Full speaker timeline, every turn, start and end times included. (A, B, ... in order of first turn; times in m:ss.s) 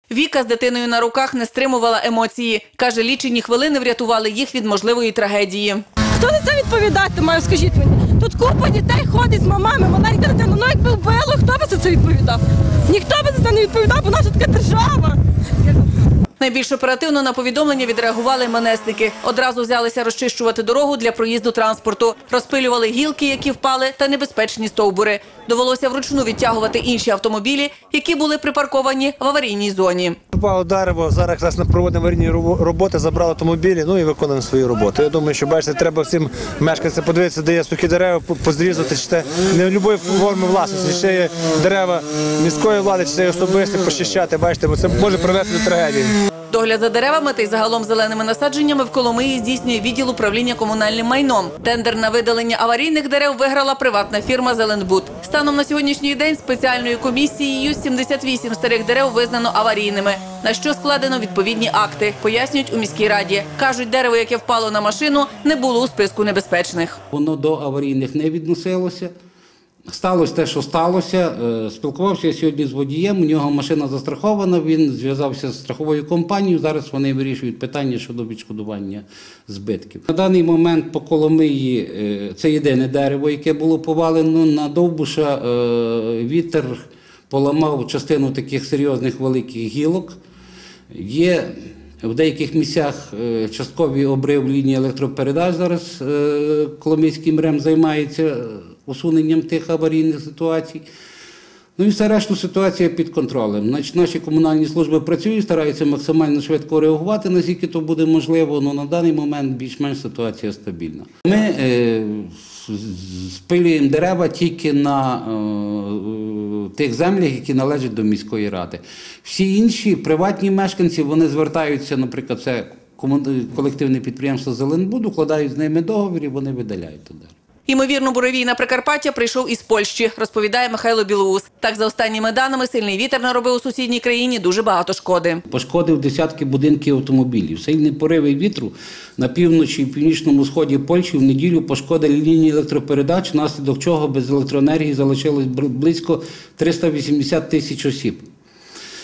0:00.1-0:05.8 A
0:06.2-0:15.2 B
0:16.4-0:30.2 A
0:30.3-0:46.2 C
0:46.5-1:07.0 A
1:07.1-1:09.1 D
1:09.9-1:30.2 D
1:30.9-1:31.5 D
1:32.0-1:40.8 D
1:41.8-2:07.3 D
2:07.7-2:15.4 A
2:15.5-2:28.3 D